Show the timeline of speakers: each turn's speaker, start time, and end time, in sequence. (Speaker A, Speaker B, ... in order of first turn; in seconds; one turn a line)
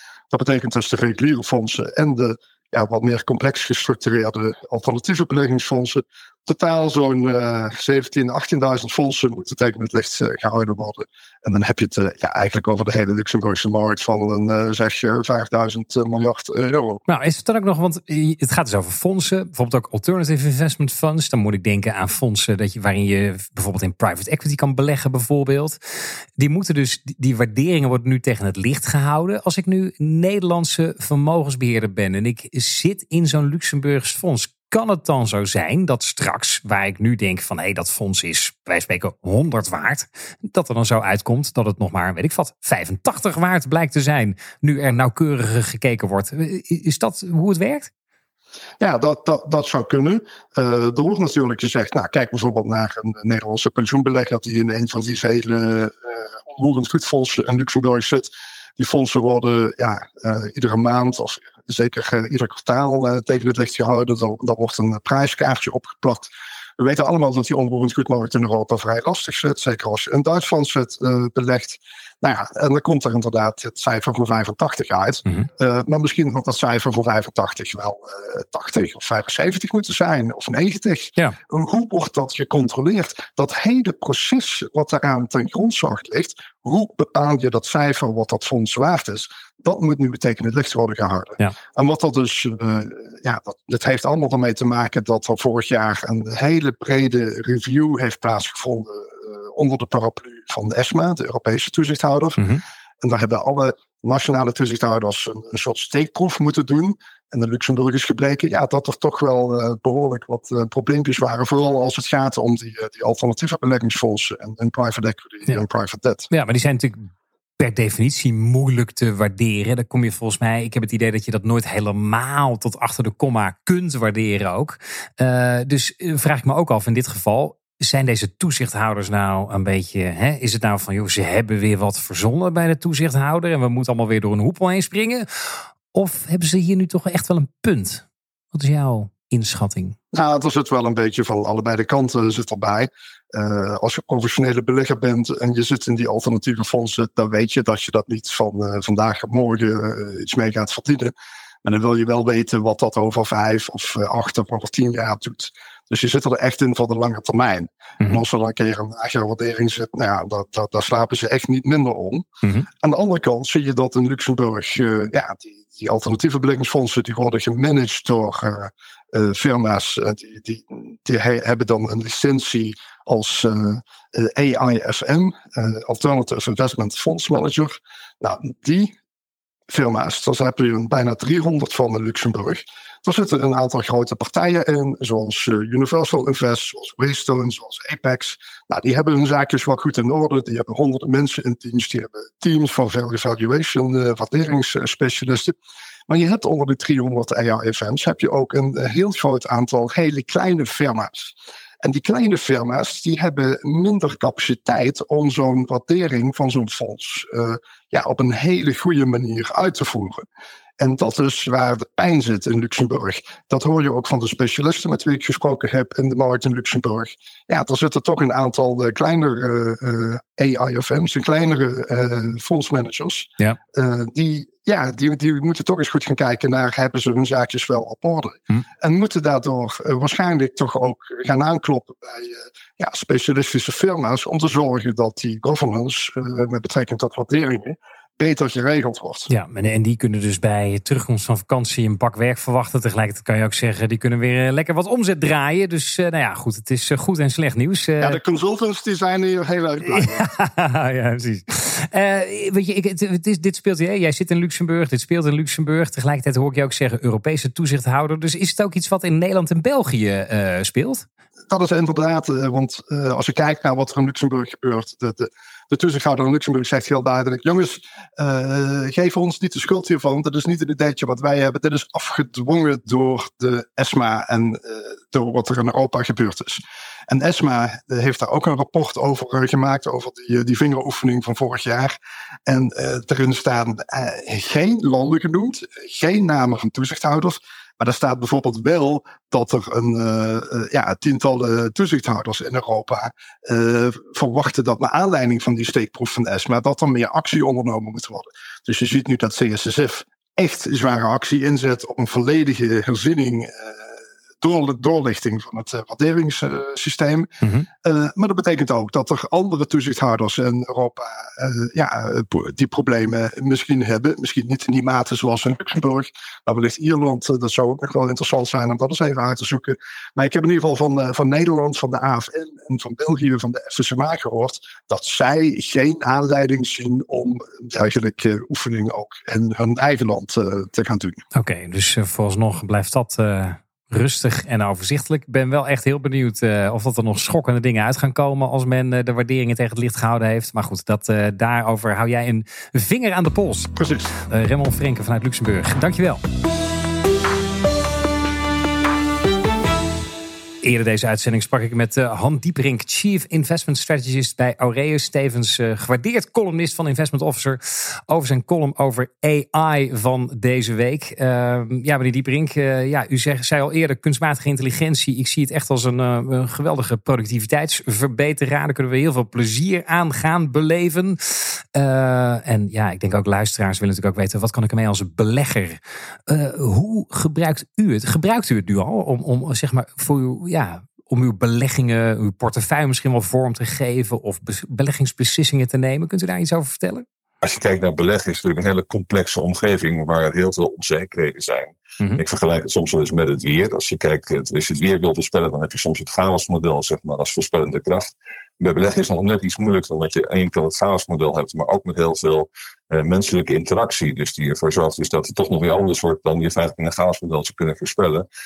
Speaker A: 0.3-17.0
Speaker B: 17.1-25.8
Speaker B: 26.4-47.9
Speaker A: 48.8-102.4
Speaker B: 102.4-102.6
Speaker A: 103.0-116.3
Speaker B: 116.3-140.0
Speaker A: 140.1-162.3
Speaker A: 162.8-178.9
Speaker A: 179.7-195.5
Speaker A: 196.1-210.2
Speaker A: 210.8-239.3
Speaker B: 239.3-248.2
Speaker A: 248.0-250.2
Speaker B: 249.9-261.1
Speaker A: 261.5-281.9
Speaker A: 282.5-303.9
Speaker A: 304.4-331.2
Speaker B: 307.4-307.7
Speaker B: 331.3-346.2
Speaker A: 343.8-344.1
Speaker B: 350.6-387.1
Speaker C: 387.4-408.3